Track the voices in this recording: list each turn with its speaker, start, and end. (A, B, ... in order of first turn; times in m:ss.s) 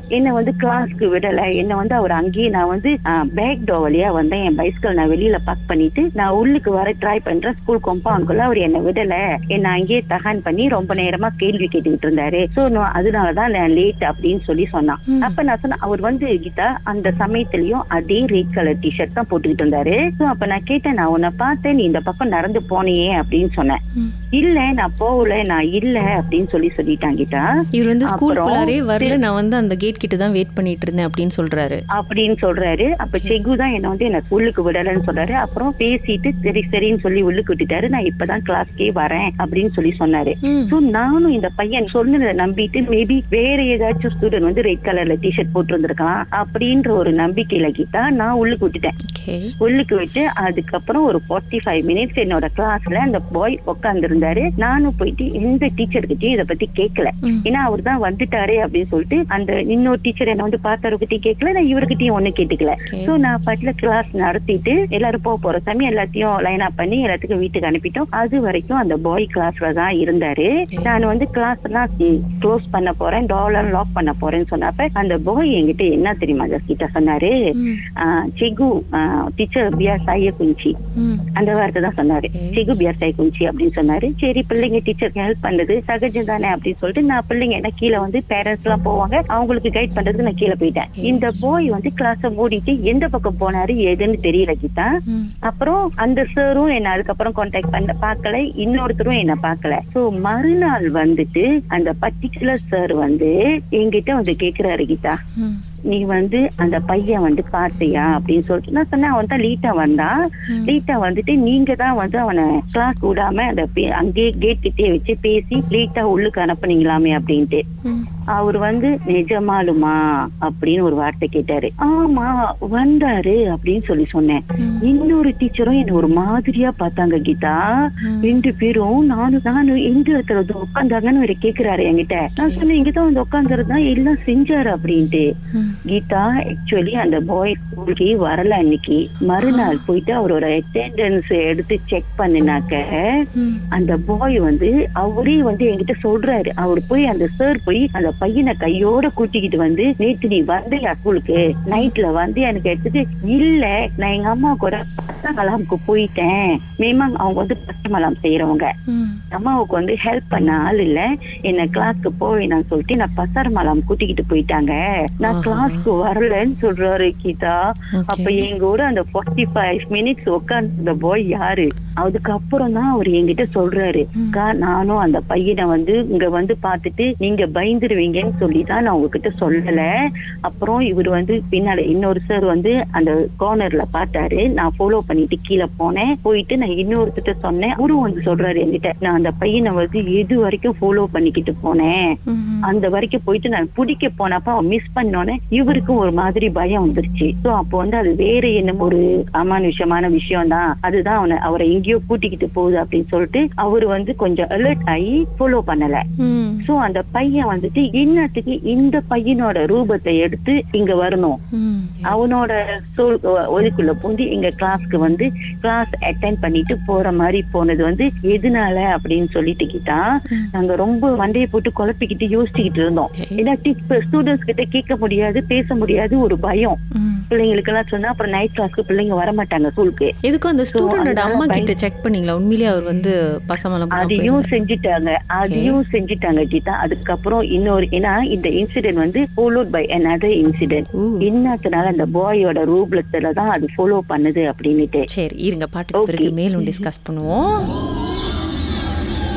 0:00.2-0:23.8 A
0:15.1-0:15.4 B
0:24.4-0:27.5 A
0:27.8-0:31.8 B
0:28.1-0:29.2 A
0:32.0-0:49.0 A
0:33.1-0:33.3 B
0:40.4-0:40.8 B
0:49.1-0:49.5 B
0:49.6-1:17.3 A
1:02.9-1:03.1 B
1:17.6-1:17.8 B
1:18.0-1:20.7 A
1:21.0-1:21.2 B
1:21.4-1:34.9 A
1:22.3-1:22.6 B
1:31.0-1:31.3 B
1:35.5-1:45.2 A
1:45.9-1:50.2 A
1:50.5-1:50.8 B
1:50.7-1:57.6 A
1:58.4-2:07.6 A
2:04.6-2:04.8 B
2:08.0-2:08.4 B
2:08.2-2:15.2 A
2:12.4-2:12.7 B
2:15.5-2:15.8 B
2:15.9-2:23.0 A
2:19.4-2:19.8 B
2:23.4-2:23.6 B
2:23.8-2:38.7 A
2:38.9-2:39.2 B
2:39.3-2:47.6 A
2:45.3-2:45.8 B
2:48.0-2:48.5 B
2:48.1-2:59.8 A
3:00.5-3:12.0 A
3:12.3-3:12.7 B
3:12.7-3:26.0 A
3:26.2-3:26.7 B
3:26.6-3:31.4 A
3:31.5-3:32.2 B
3:32.0-3:40.0 A
3:40.5-3:46.8 A
3:47.0-3:47.2 B
3:47.3-3:50.1 A
3:50.3-3:54.5 B
3:50.7-3:51.7 A
3:54.0-4:05.0 A
3:55.4-3:55.8 B
4:05.1-4:07.7 B
4:06.0-4:06.8 A